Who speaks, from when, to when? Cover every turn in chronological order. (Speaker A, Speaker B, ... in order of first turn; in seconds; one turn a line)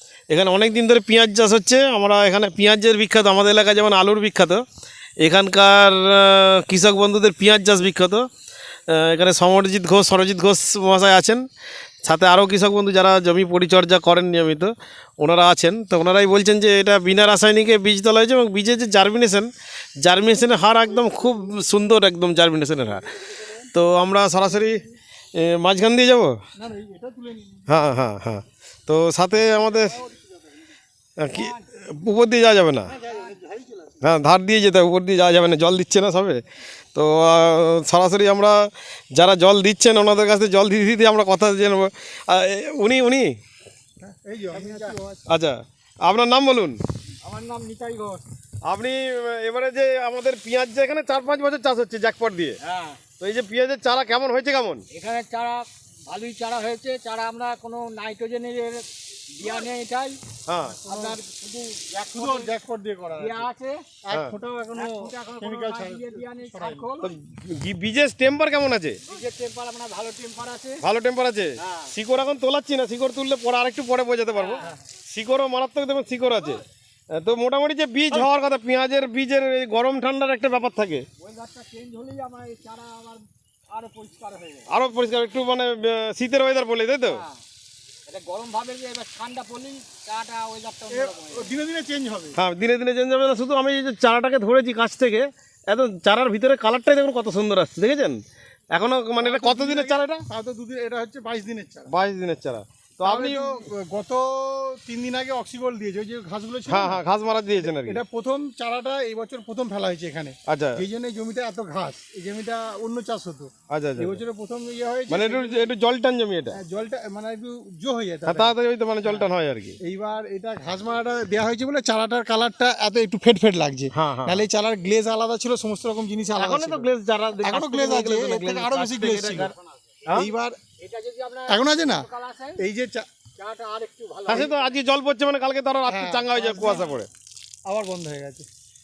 Speaker A: 0.3-4.6
Speaker A: 5.2-8.3
Speaker A: 8.9-11.4
Speaker A: 12.0-26.3
Speaker B: 26.6-27.7
Speaker A: 27.7-30.0
Speaker A: 31.2-33.0
Speaker C: 31.3-31.6
Speaker B: 32.9-33.9
Speaker C: 33.0-33.3
Speaker A: 34.0-43.3
Speaker B: 44.0-45.2
Speaker C: 44.5-45.0
Speaker A: 45.3-46.8
Speaker C: 47.2-48.2
Speaker A: 48.6-52.6
Speaker C: 52.6-53.0
Speaker A: 53.2-54.8
Speaker C: 54.9-62.5
Speaker A: 60.5-60.8
Speaker B: 60.9-61.2
Speaker B: 62.1-63.5
Speaker C: 63.2-63.9
Speaker B: 64.0-66.9
Speaker C: 64.7-67.1
Speaker A: 67.0-69.0
Speaker C: 69.0-70.8
Speaker A: 70.8-76.6
Speaker C: 71.6-71.9
Speaker C: 74.3-74.7
Speaker A: 77.1-81.0
Speaker C: 81.2-84.7
Speaker A: 84.7-87.2
Speaker C: 87.0-87.4
Speaker C: 88.1-91.5
Speaker B: 90.9-92.4
Speaker A: 92.3-98.2
Speaker A: 98.7-100.2
Speaker B: 99.2-101.9
Speaker A: 101.9-103.6
Speaker B: 103.0-107.0
Speaker A: 106.7-108.0
Speaker B: 107.5-115.7
Speaker A: 110.5-110.8
Speaker A: 113.7-114.2
Speaker A: 115.1-116.6
Speaker B: 116.5-118.5
Speaker A: 118.2-119.8
Speaker B: 119.8-126.9
Speaker A: 123.9-124.4
Speaker A: 126.4-129.5
Speaker B: 127.4-129.5
Speaker B: 130.1-130.6
Speaker C: 130.8-132.6
Speaker B: 131.5-133.1
Speaker C: 133.4-134.7
Speaker A: 134.3-137.1
Speaker B: 135.9-137.0
Speaker B: 137.7-138.5